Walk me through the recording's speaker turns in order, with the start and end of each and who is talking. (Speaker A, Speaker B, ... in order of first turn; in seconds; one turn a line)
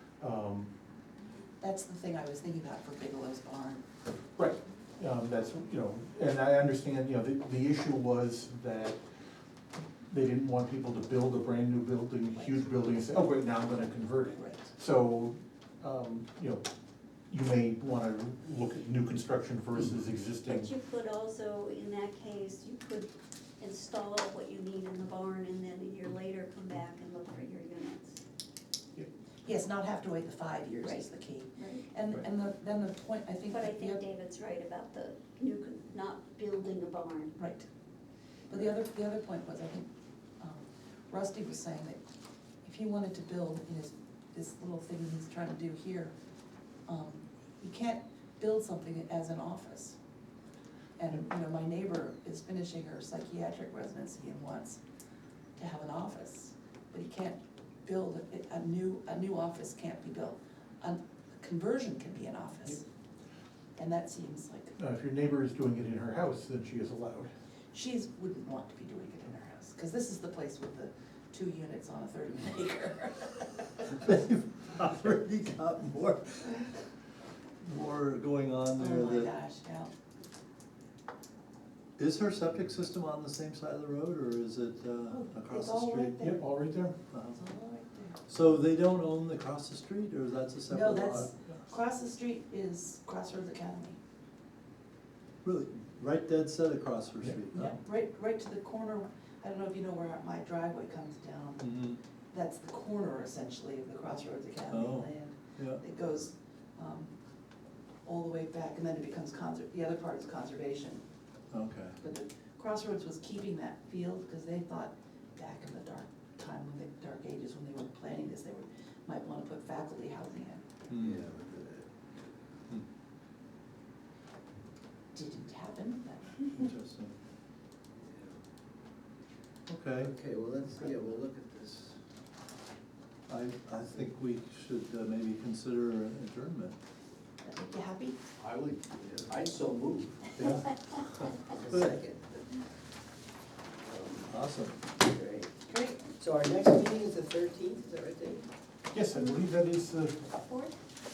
Speaker A: 0.2-0.7
Speaker B: 1.6-3.8
Speaker A: 4.3-9.0
Speaker A: 10.1-16.7
Speaker B: 12.3-12.7
Speaker B: 14.2-14.7
Speaker A: 17.3-20.7
Speaker C: 20.5-28.2
Speaker B: 29.4-34.0
Speaker C: 31.6-31.8
Speaker C: 33.5-37.3
Speaker B: 37.4-37.7
Speaker B: 38.5-39.9
Speaker B: 40.4-42.0
Speaker B: 42.6-46.1
Speaker B: 46.9-50.0
Speaker B: 51.0-54.8
Speaker B: 55.5-62.8
Speaker B: 63.8-64.8
Speaker A: 64.8-67.3
Speaker B: 67.7-73.8
Speaker D: 73.9-76.5
Speaker D: 77.6-79.3
Speaker B: 78.8-79.9
Speaker D: 82.0-86.2
Speaker B: 85.1-86.4
Speaker A: 86.2-87.0
Speaker D: 87.1-87.4
Speaker B: 87.3-88.2
Speaker D: 88.3-91.3
Speaker B: 90.7-94.0
Speaker D: 95.4-97.8
Speaker B: 97.5-107.2
Speaker D: 101.6-102.0
Speaker D: 104.7-105.8
Speaker B: 108.0-111.0
Speaker D: 111.5-112.0
Speaker B: 112.0-120.7
Speaker D: 120.9-121.2
Speaker E: 121.0-122.1
Speaker B: 125.1-126.6
Speaker D: 126.5-127.1
Speaker E: 128.0-128.4
Speaker D: 129.7-130.1
Speaker E: 130.0-132.0
Speaker D: 133.3-136.8
Speaker B: 137.4-138.2
Speaker E: 138.4-140.3
Speaker D: 140.4-141.3
Speaker E: 141.5-142.6
Speaker E: 143.8-144.3
Speaker D: 144.3-144.8
Speaker E: 145.0-145.5
Speaker B: 145.7-146.1
Speaker E: 146.1-148.5
Speaker A: 148.9-150.2
Speaker C: 150.5-150.7